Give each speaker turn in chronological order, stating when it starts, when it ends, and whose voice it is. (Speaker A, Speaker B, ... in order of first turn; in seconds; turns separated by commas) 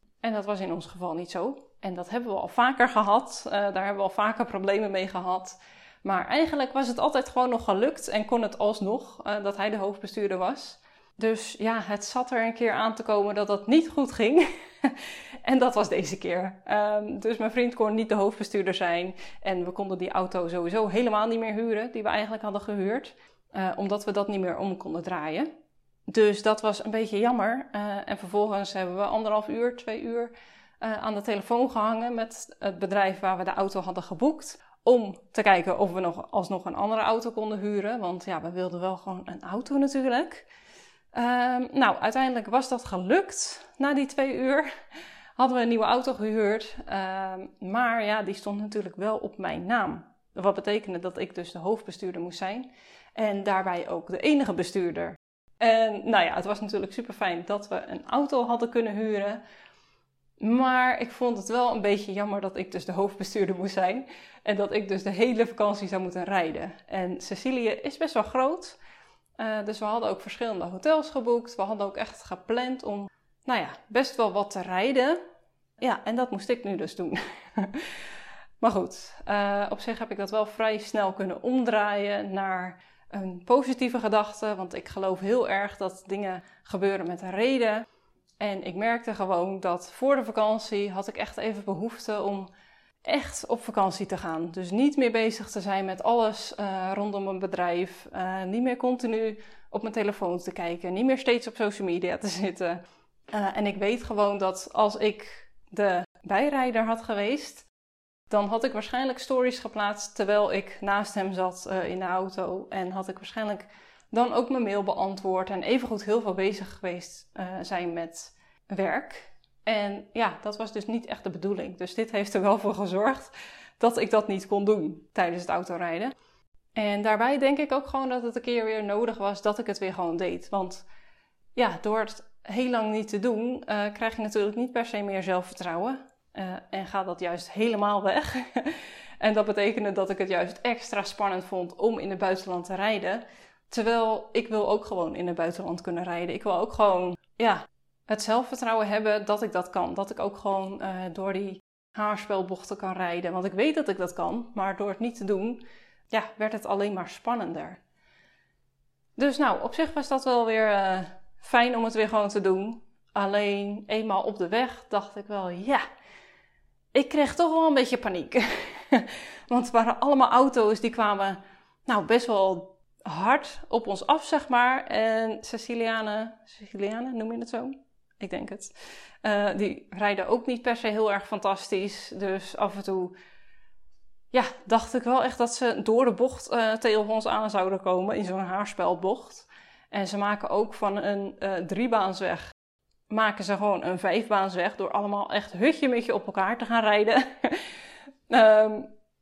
Speaker A: 0.2-25.5, Speaker A: 26.1-40.5, Speaker A: 41.1-44.7, Speaker A: 45.4-59.4, Speaker A: 60.4-68.8, Speaker A: 69.4-75.2, Speaker A: 75.8-78.1, Speaker A: 78.6-87.8, Speaker A: 88.4-92.5, Speaker A: 93.0-107.7, Speaker A: 108.3-126.1, Speaker A: 126.8-130.9, Speaker A: 131.6-157.8, Speaker A: 159.2-165.8, Speaker A: 166.9-183.2, Speaker A: 184.3-192.5, Speaker A: 193.1-197.8, Speaker A: 198.3-198.9